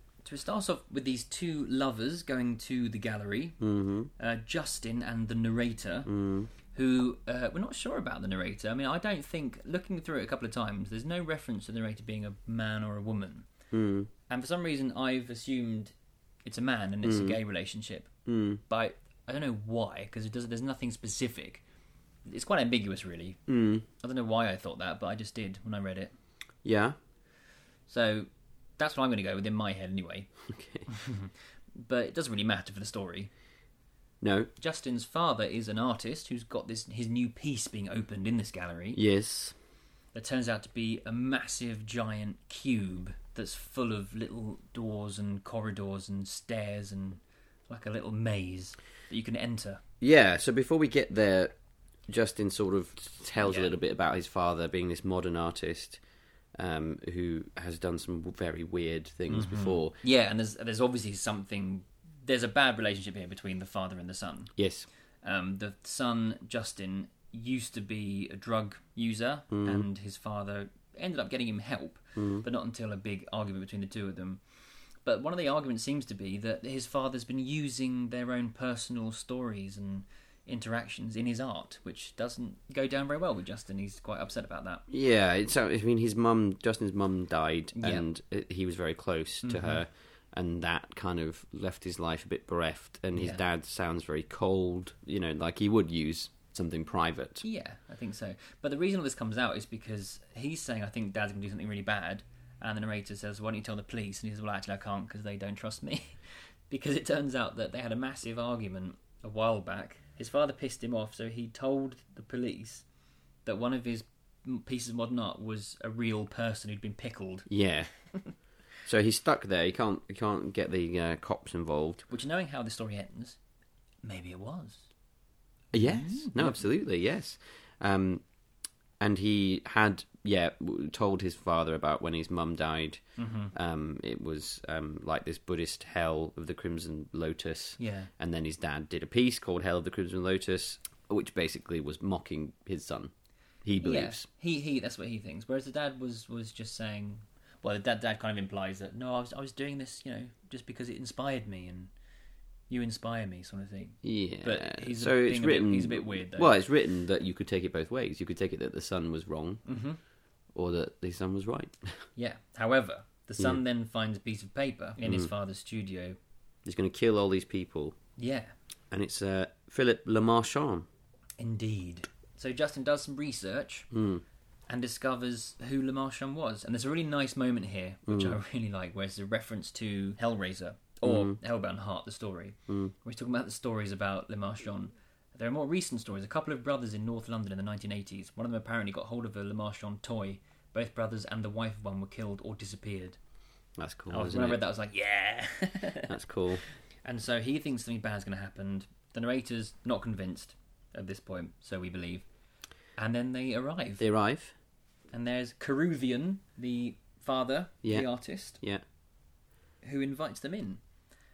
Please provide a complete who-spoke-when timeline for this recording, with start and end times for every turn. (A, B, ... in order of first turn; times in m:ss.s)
0:00.2-0:03.6 A
0:03.6-0:04.1 B
0:04.2-0:06.1 A
0:06.0-0:06.5 B
0:06.7-0:13.5 A
0:13.7-0:14.1 B
0:14.3-0:15.9 A
0:16.4-0:18.1 A
0:17.0-0:17.4 B
0:18.2-0:18.6 B
0:18.7-0:21.6 A
0:22.2-0:23.4 A
0:23.5-0:23.8 B
0:24.0-0:26.1 A
0:26.6-0:27.0 B
0:27.9-0:30.3 A
0:30.5-0:30.9 B
0:30.9-0:33.3 A
0:34.2-0:34.5 B
0:34.6-0:39.0 A
0:38.9-0:39.5 B
0:40.1-0:49.8 A
0:50.0-0:51.5 B
0:52.1-0:56.0 B
0:53.4-0:53.7 A
0:56.5-1:00.0 B
0:59.3-1:04.5 A
1:04.6-1:04.9 B
1:05.2-1:14.4 A
1:09.5-1:09.9 B
1:12.2-1:12.4 B
1:15.0-1:24.8 A
1:24.9-1:37.4 B
1:27.8-1:28.0 A
1:29.4-1:29.8 A
1:33.1-1:33.4 A
1:37.4-1:52.8 A
1:53.4-1:57.5 A
1:57.5-1:57.9 B
1:58.8-2:02.0 B
2:02.1-2:03.4 A
2:04.0-2:04.9 A
2:05.7-2:08.2 B
2:05.8-2:06.6 A
2:09.0-2:13.0 B
2:13.2-2:13.5 A
2:13.5-2:23.1 B
2:17.8-2:18.1 A
2:23.6-2:24.2 B
2:23.8-2:31.9 A
2:32.7-2:36.5 A
2:34.0-2:39.6 B
2:39.6-2:40.0 A
2:40.5-2:41.9 B
2:42.2-2:46.2 A
2:45.0-2:45.3 B
2:46.6-2:48.0 B
2:48.2-2:48.5 A
2:48.9-2:50.9 B
2:51.4-2:53.9 A
2:53.9-2:54.2 B
2:54.7-3:13.2 A
2:58.1-2:58.4 B
3:01.0-3:01.4 B
3:02.7-3:02.9 B
3:13.8-3:14.6 B
3:14.1-3:16.1 A
3:16.1-3:16.6 B
3:17.0-3:22.2 A
3:23.0-3:24.0 A
3:24.0-3:24.5 B
3:25.1-3:28.6 A
3:29.8-3:30.8 A